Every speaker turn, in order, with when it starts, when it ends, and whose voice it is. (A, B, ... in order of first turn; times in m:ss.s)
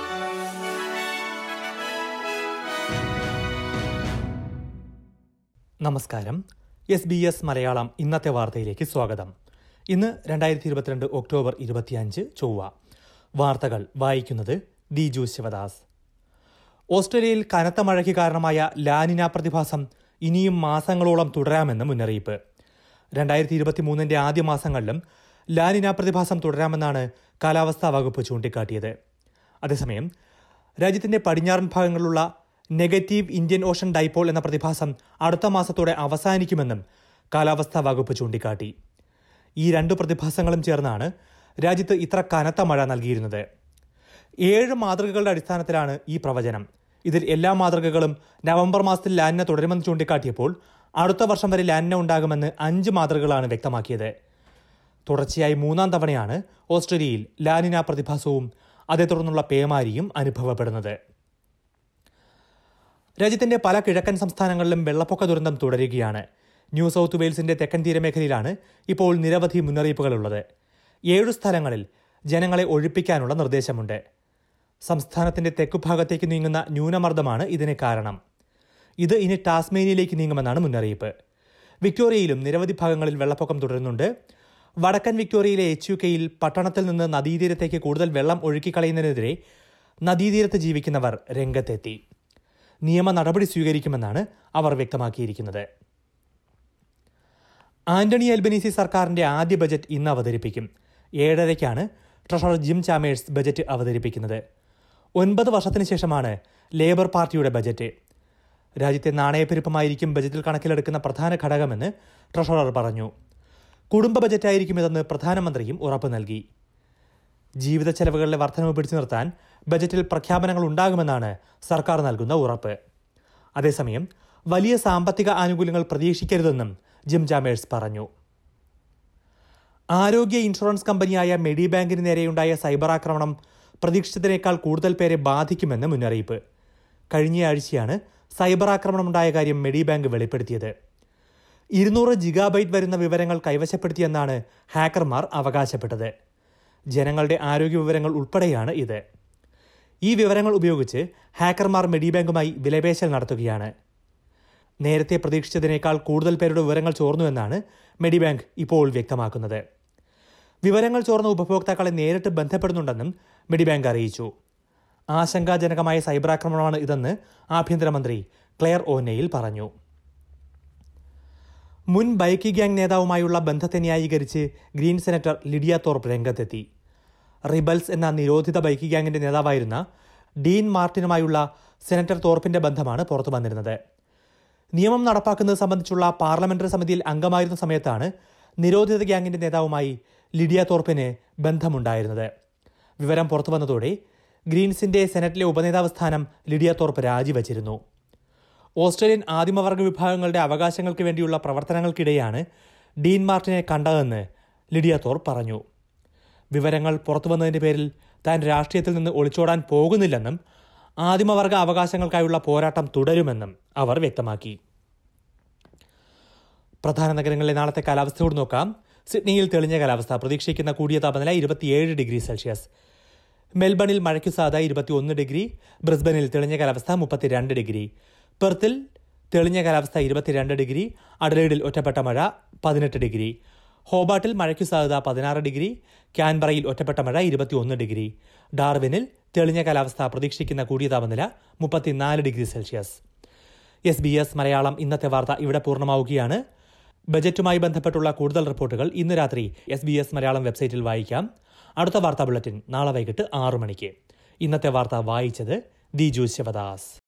0:05.8-0:06.4 A
0:06.9-0:09.3 A
0:09.9-0:12.7 A
0:13.4-0:15.8 A
0:16.9-0:22.4 A
0:23.2-0:25.0 A
0:25.6-0:28.9 A
0:29.6-0:30.1 A
0:30.8-0:32.2 A
0:32.8-0:36.8 A
0:37.3-0:38.7 A
0:39.6-0:41.1 A
0:41.6-0:43.4 A
0:44.5-0:54.1 A
0:55.1-1:00.9 A
1:03.2-1:06.2 A
1:06.8-1:10.4 A
1:11.1-1:14.0 A
1:14.9-1:18.2 A
1:19.0-1:21.1 A
1:21.8-1:24.1 A
1:24.8-1:29.4 A
1:30.0-1:32.0 A
1:32.9-1:35.6 A
1:37.9-1:40.7 A
1:41.2-1:44.4 A
1:45.2-1:47.9 A
1:48.8-1:53.1 A
1:53.9-1:56.4 A
1:57.6-2:02.8 A
2:03.6-2:08.1 A
2:10.0-2:16.4 A
2:17.1-2:20.7 A
2:21.8-2:26.1 A
2:26.9-2:29.0 A
2:30.1-2:33.7 A
2:34.8-2:39.6 A
2:40.6-2:44.3 A
2:45.1-2:49.7 A
2:51.9-2:56.6 A
2:57.5-2:59.8 A
3:00.4-3:03.8 A
3:04.8-3:08.1 A
3:08.6-3:12.3 A
3:13.0-3:13.9 A
3:14.5-3:17.8 A
3:18.8-3:22.4 A
3:23.0-3:24.2 A
3:24.7-3:25.6 A
3:26.5-3:30.4 A
3:31.0-3:34.6 A
3:36.8-3:42.7 A
3:43.6-3:47.9 A
3:48.4-3:48.7 A
3:49.3-3:53.3 A
3:53.9-4:03.0 A
4:03.9-4:06.4 A
4:07.1-4:11.2 A
4:11.8-4:16.9 A